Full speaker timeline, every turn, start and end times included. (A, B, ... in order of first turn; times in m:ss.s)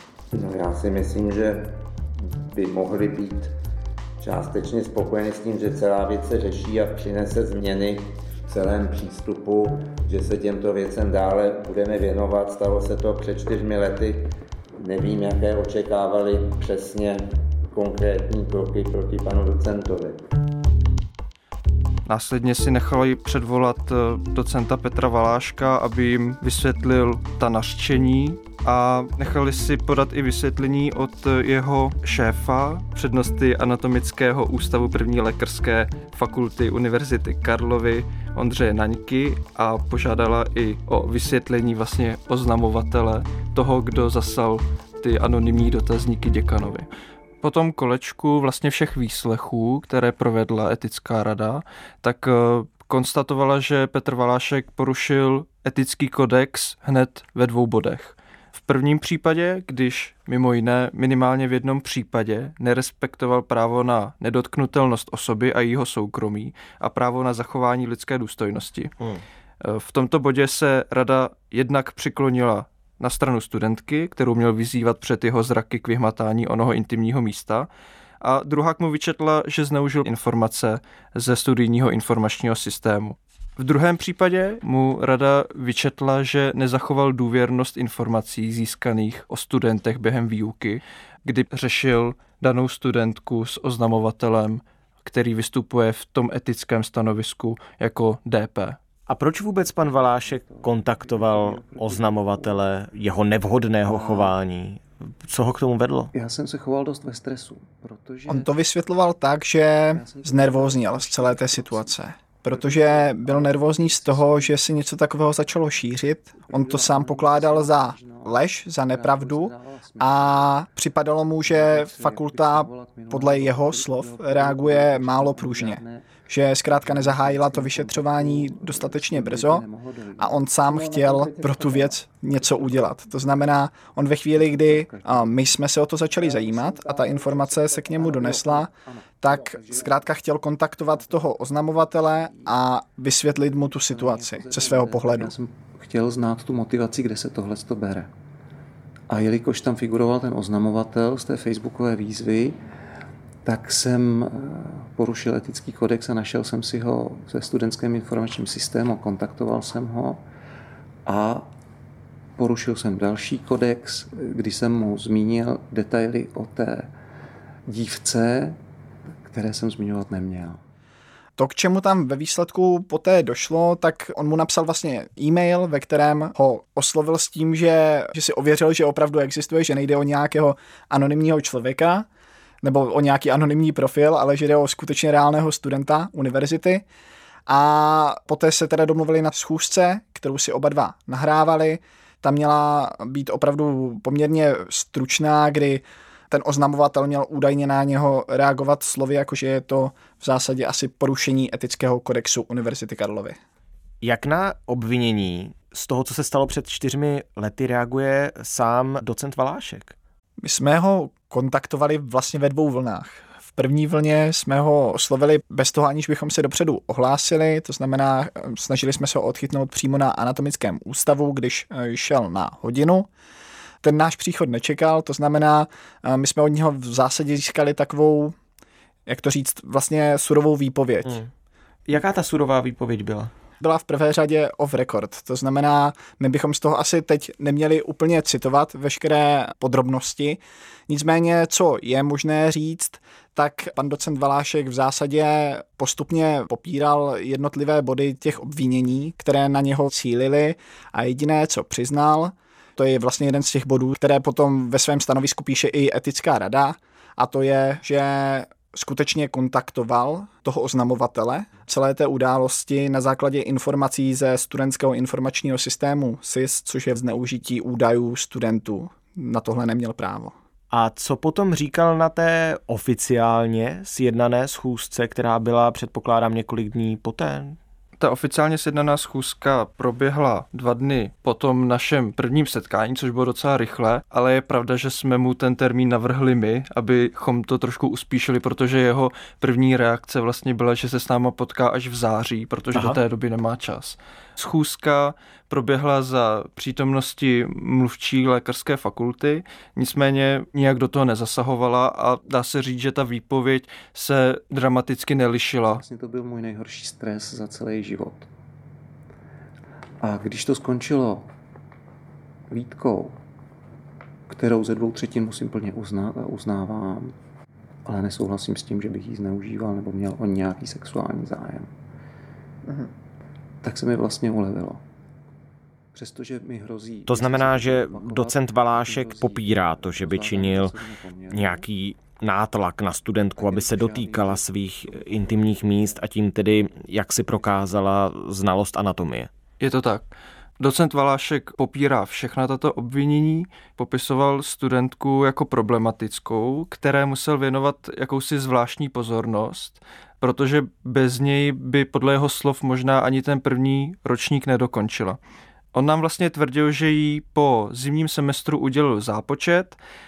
0:00.3-0:03.5 A
0:04.2-0:20.2 A
0:22.0-0:46.9 B
0:47.4-1:08.9 B
1:09.6-1:17.7 B
1:18.2-1:38.8 B
1:39.1-1:46.1 C
1:40.0-1:42.7 D
1:43.8-1:44.3 D
1:46.1-1:48.5 D
1:48.3-2:09.6 E
1:49.9-1:54.6 D
1:56.4-2:00.6 D
2:01.4-2:06.1 D
2:06.6-2:11.9 D
2:10.2-2:25.3 E
2:12.5-2:12.8 D
2:14.3-2:15.6 D
2:16.2-2:17.2 D
2:17.8-2:20.1 D
2:20.8-2:22.5 D
2:23.7-2:28.1 D
2:29.1-2:32.6 D
2:33.4-2:40.2 D
2:41.0-2:41.5 D
2:42.4-2:46.9 D
2:47.7-2:48.6 D
2:49.2-2:50.6 D
2:51.4-3:02.1 E
3:02.6-3:06.8 E
3:07.5-3:23.4 E
3:24.0-3:29.9 C
3:30.4-3:43.1 E
3:43.8-3:48.3 E
3:49.1-3:51.2 E
3:51.0-3:51.3 C
3:51.9-3:53.3 C
3:53.6-4:30.3 E
4:30.7-4:37.6 C
4:38.0-5:05.8 B
4:52.7-4:53.0 C
5:05.7-5:08.3 D
5:10.0-5:11.3 D
5:12.5-5:13.2 D
5:14.3-5:17.1 D
5:17.8-5:21.7 D
5:23.6-5:24.8 D
5:25.9-5:31.6 D
5:27.1-5:30.7 C
5:31.3-5:39.3 C
5:33.4-5:34.4 D
5:39.6-5:40.1 B
5:40.6-5:55.2 B
5:55.7-5:59.8 B